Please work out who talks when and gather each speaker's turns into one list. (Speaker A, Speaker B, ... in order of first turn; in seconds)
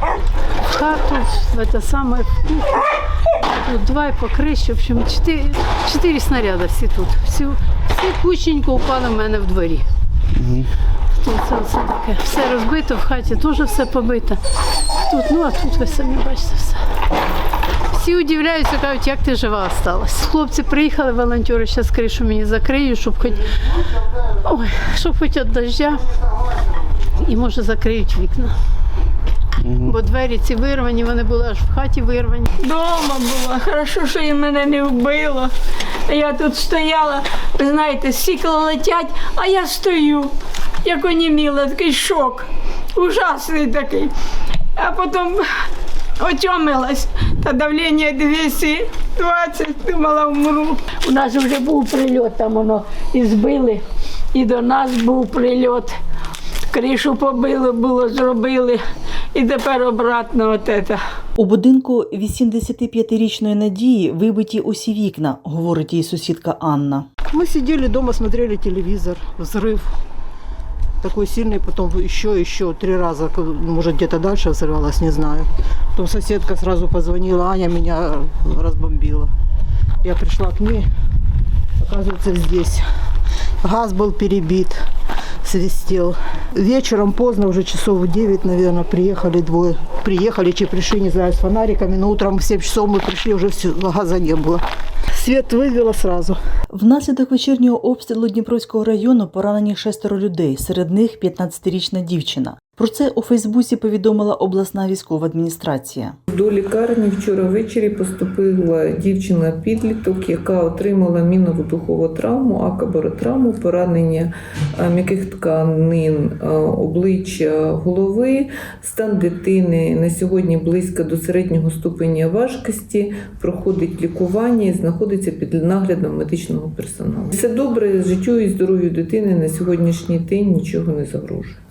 Speaker A: 0.6-2.9, 3.6-9.9, 11.2-14.4, 15.1-16.8, 17.9-23.7, 24.3-26.2, 27.0-28.5, 29.6-32.5
Speaker B: 32.6-35.5, 36.1-40.3, 40.8-44.1, 44.8-45.4, 46.2-53.8, 54.3-55.9, 56.7-58.8, 59.3-61.0
Speaker C: 61.4-67.1, 96.7-106.2
Speaker D: 67.3-69.9, 71.0-79.3, 80.0-80.9, 81.8-82.9, 83.6-84.8, 85.4-96.4
Speaker E: 106.3-131.6